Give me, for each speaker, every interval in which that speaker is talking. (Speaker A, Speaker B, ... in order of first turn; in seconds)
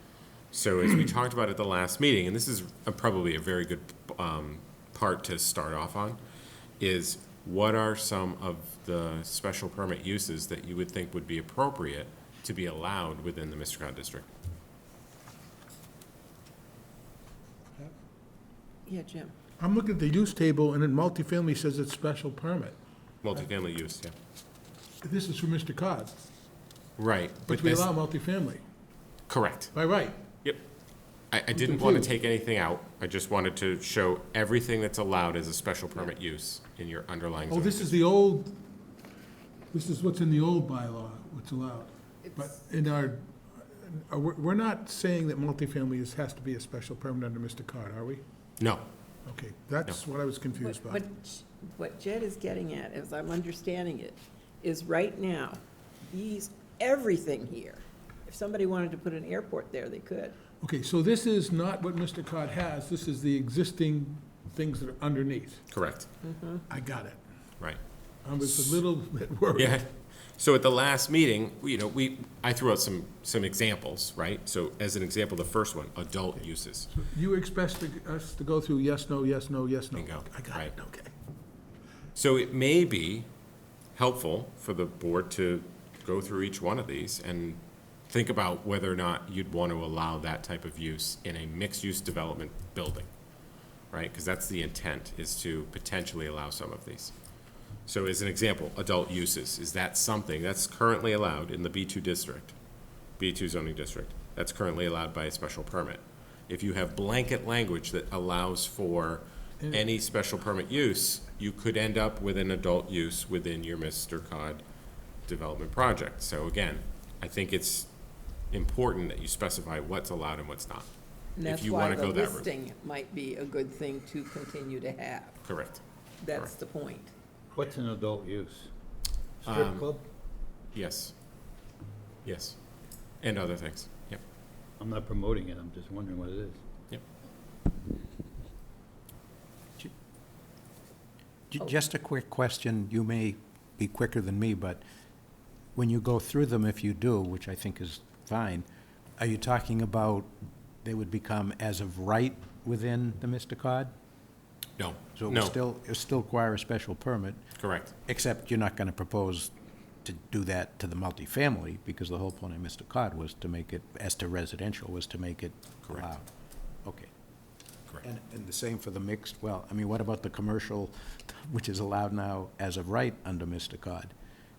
Speaker A: 0.5-6.2, 6.8-14.3, 23.2-24.1, 27.0-27.9, 29.3-29.7, 31.3-38.0, 48.6-48.9, 65.7-66.1, 68.4-68.8, 69.5-76.9, 80.0-80.7, 82.2-83.3, 84.0-93.1, 93.9-97.1, 97.9-102.6, 103.2-114.6, 115.3-117.9, 118.5-120.9, 121.4-122.5, 125.4-126.5, 129.4-129.9, 130.7-131.1, 132.2-132.6, 133.2-134.2, 154.8-155.6, 157.6-157.9, 165.8-166.1
Speaker B: 18.9-19.3, 50.6-60.4, 66.2-66.6, 121.4-125.4, 126.2-127.1
Speaker C: 19.6-22.8, 25.0-26.1, 27.5-28.6, 29.7-30.2, 31.5-32.1, 37.5-38.5, 39.7-48.2, 49.3-51.0, 60.6-65.6, 66.7-67.2, 68.2-69.8, 76.9-81.1
Speaker D: 127.5-128.7, 129.4-130.0, 134.8-136.6
Speaker E: 141.5-144.8, 145.8-148.7, 149.2-150.3, 150.8-153.9, 155.2-157.4, 158.1-159.5, 160.0-166.3, 166.8-167.1, 168.0-174.1